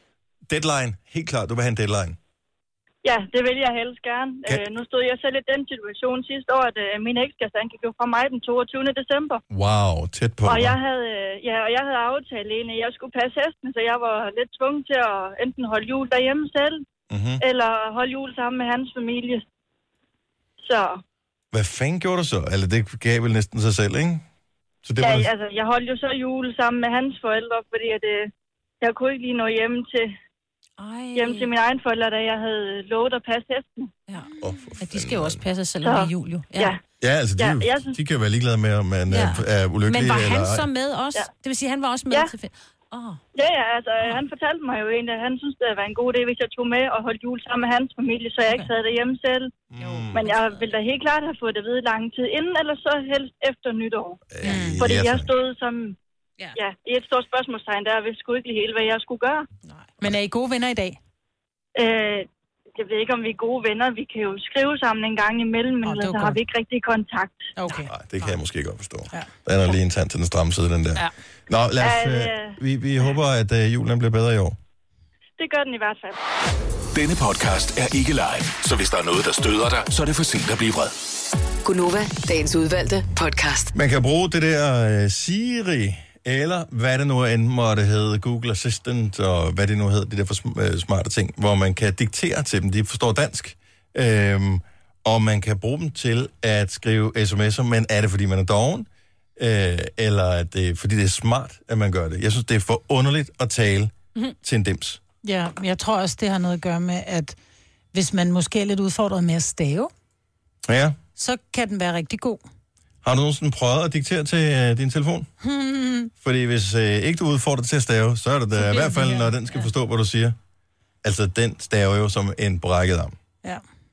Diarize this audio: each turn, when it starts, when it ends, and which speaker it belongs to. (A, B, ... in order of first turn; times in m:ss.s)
0:00.5-0:02.2 A
0:03.0-0:09.4 B
0:09.5-0:10.8 A
0:10.4-0:16.8 B
0:17.1-0:17.4 A
0:17.4-0:19.4 B
0:20.6-0:21.0 B
0:21.5-0:24.2 A
0:24.8-0:25.3 A
0:25.0-0:30.1 B
0:30.8-0:31.5 C
0:31.2-0:33.9 B
0:34.1-0:36.8 C
0:34.4-0:35.4 A
0:37.0-0:40.7 A
0:37.4-0:37.9 B
0:39.1-0:43.2 C
0:43.3-0:54.2 B
0:49.7-0:50.3 A
0:49.8-0:50.6 C
0:54.3-0:55.3 A
0:54.4-0:54.8 D
0:54.8-0:56.0 B
0:56.6-0:59.5 B
1:00.0-1:01.0 D
1:01.7-1:07.5 B
1:05.8-1:06.4 D
1:07.6-1:08.3 D
1:07.8-1:14.6 A
1:11.8-1:12.6 B
1:15.4-1:16.2 B
1:16.9-1:20.9 E
1:21.6-1:23.7 F
1:23.7-1:45.0 A
1:45.2-1:47.4 D
1:47.9-1:49.9 D
1:50.6-1:51.0 A
1:51.2-1:52.4 D
1:53.0-1:55.3 A
1:55.4-1:56.1 D
1:56.2-2:00.4 A
1:58.6-1:59.6 C
2:01.0-2:03.2 A